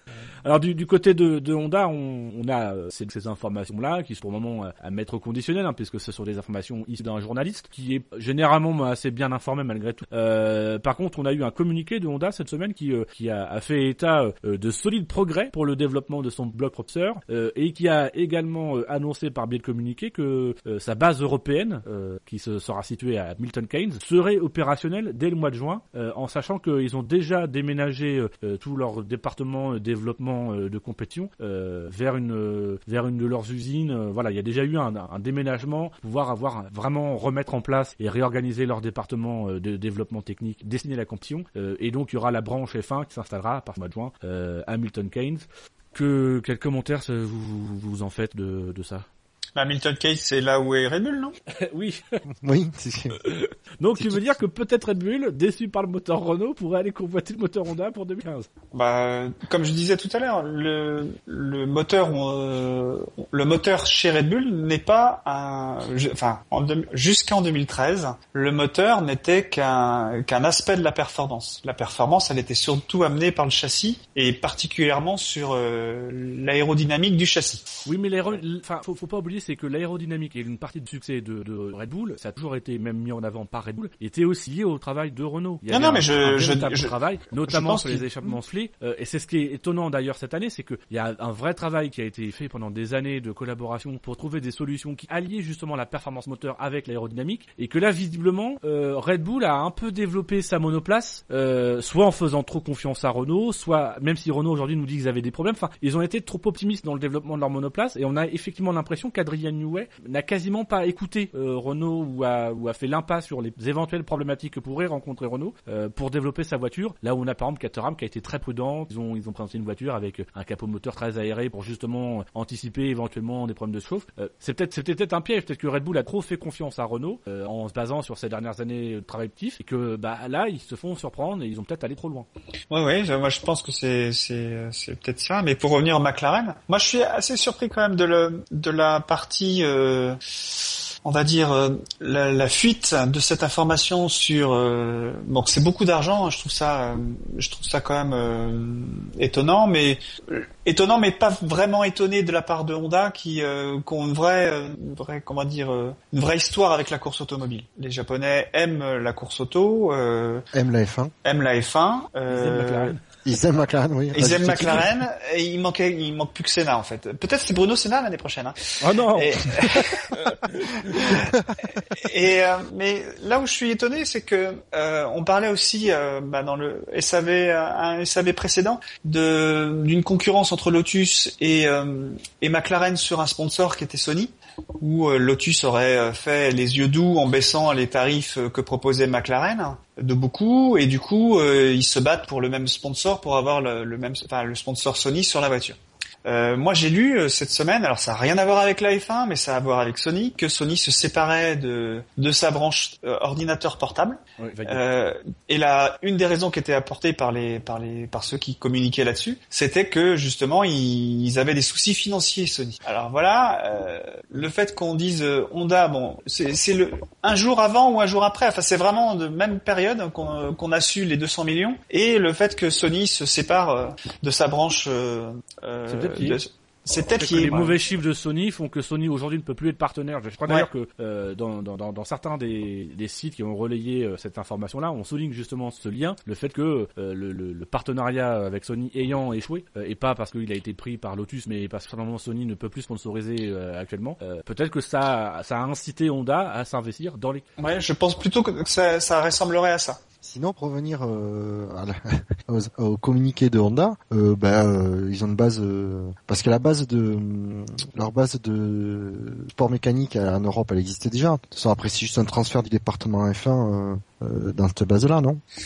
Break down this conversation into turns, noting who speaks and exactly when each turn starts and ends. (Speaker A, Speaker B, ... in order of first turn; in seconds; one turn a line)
Speaker A: 0.4-49.0
Speaker B: 49.5-51.4
Speaker A: 51.5-52.2
Speaker C: 52.4-53.2
Speaker A: 53.2-58.5
Speaker B: 58.7-77.8
Speaker A: 77.8-132.3
Speaker B: 85.7-86.9
Speaker B: 87.5-88.3
Speaker B: 132.7-160.4
Speaker C: 160.5-161.1
Speaker B: 161.2-162.9
Speaker A: 162.3-163.0
Speaker C: 163.2-164.9
Speaker B: 164.1-227.8
Speaker A: 164.2-164.8
Speaker A: 168.8-169.8
Speaker A: 204.4-204.8
Speaker A: 225.9-226.4
Speaker A: 227.2-247.4
Speaker B: 247.6-250.0
Speaker C: 250.2-265.4